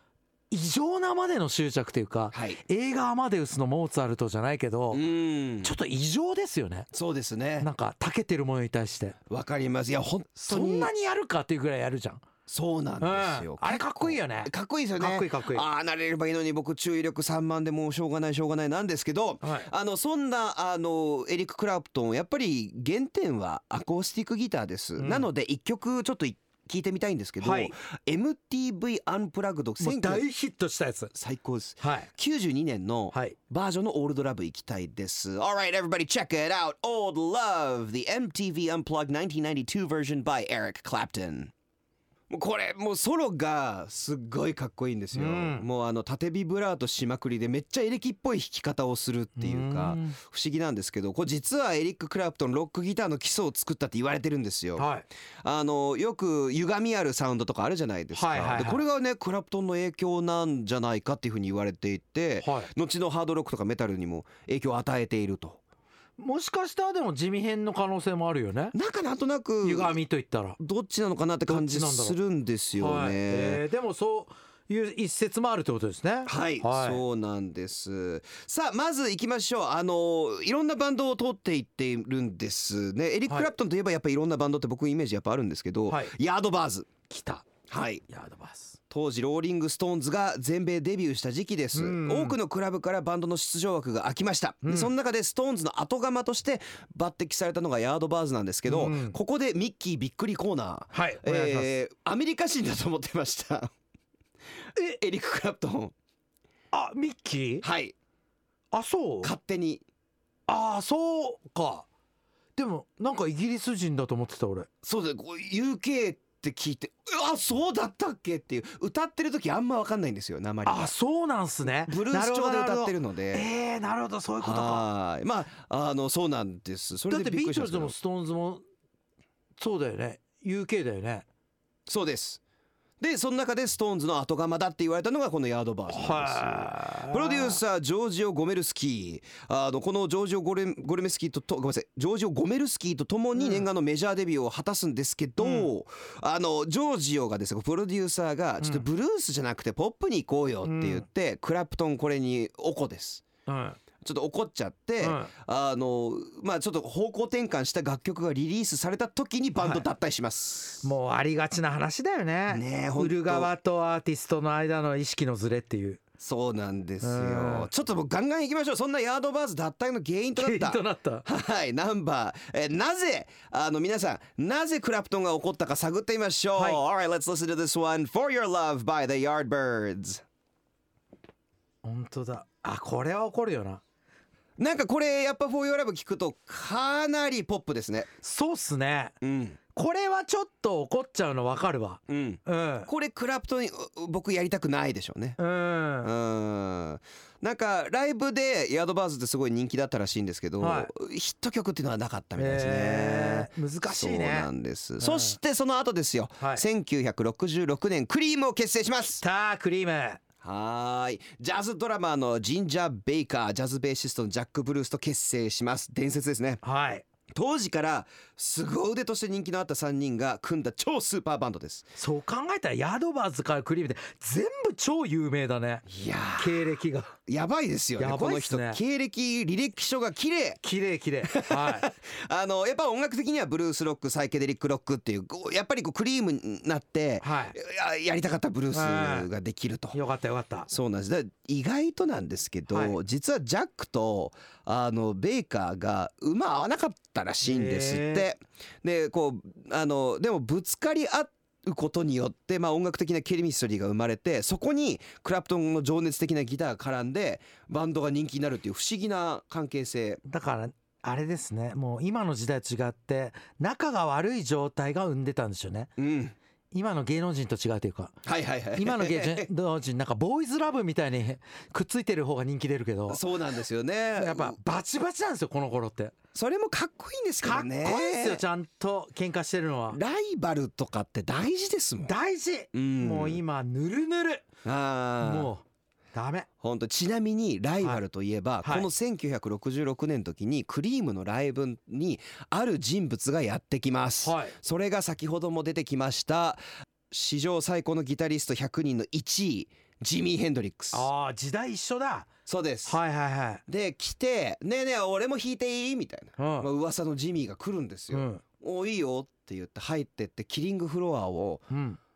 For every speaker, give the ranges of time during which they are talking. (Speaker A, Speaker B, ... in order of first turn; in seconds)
Speaker A: 0.5-5.0, 5.6-6.9, 7.6-9.2, 10.4-12.2, 13.0-15.7, 19.4-19.7, 25.0-25.3, 27.4-27.7, 29.8-31.1, 31.8-32.1, 45.1-45.6, 49.4-50.2, 54.8-55.1, 58.1-58.8, 62.4-62.7, 66.2-68.8, 69.6-70.6, 71.5-72.2, 72.8-77.0, 85.9-86.1, 87.1-87.5, 88.1-88.8, 91.7-92.4, 94.6-94.9, 98.7-99.2, 100.9-101.7, 106.7-107.7, 108.7-109.3, 110.5-111.9, 112.6-114.7, 120.7-124.9, 127.1-128.6, 129.6-131.3, 135.9-137.6, 143.4-143.7, 145.4-145.7, 150.7-151.1, 153.5-153.8, 155.0-155.3, 159.6-159.8, 160.8-166.0, 167.0-167.7, 170.4-171.2, 181.8-183.8, 188.2-189.2, 189.8-192.9, 195.4-196.1, 200.6-200.9, 202.4-204.5, 205.0-205.4, 206.4-206.7, 209.2-210.2, 216.6-217.1, 222.0-225.9, 226.4-227.2, 228.0-228.8, 230.6-231.9, 237.2-237.6, 238.7-239.3, 239.9-240.7, 242.7-243.0, 247.4-248.3, 260.3-265.9, 266.7-268.1, 268.8-273.2, 274.2-276.1, 277.4-280.0, 282.0-284.5, 285.2-286.5, 294.2-294.6, 300.9-302.3, 302.9-303.6, 306.4-306.7, 308.1-308.4, 311.7-312.0
Speaker B: 2.3-2.6, 4.9-5.7, 6.9-7.7, 9.3-10.9, 12.5-30.2, 31.1-41.5, 42.3-54.9, 55.4-65.6, 68.7-70.0, 70.6-73.6, 76.3-86.9, 87.7-88.0, 88.9-103.7, 104.8-105.9, 107.6-108.0, 109.2-109.8, 114.8-120.9, 121.9-123.5, 124.4-128.0, 131.9-132.4, 133.0-153.2, 154.0-160.9, 162.5-163.5, 166.2-180.2, 184.6-188.1, 189.2-189.6, 192.1-195.4, 196.0-209.2, 210.4-216.6, 217.3-221.9, 225.9-226.6, 227.3-230.6, 231.2-240.0, 240.7-260.2, 266.0-266.4, 268.2-269.5, 273.1-274.6, 276.3-278.4, 279.9-282.1, 282.7-283.4, 284.6-285.5, 286.6-301.1, 302.5-303.0, 303.7-311.7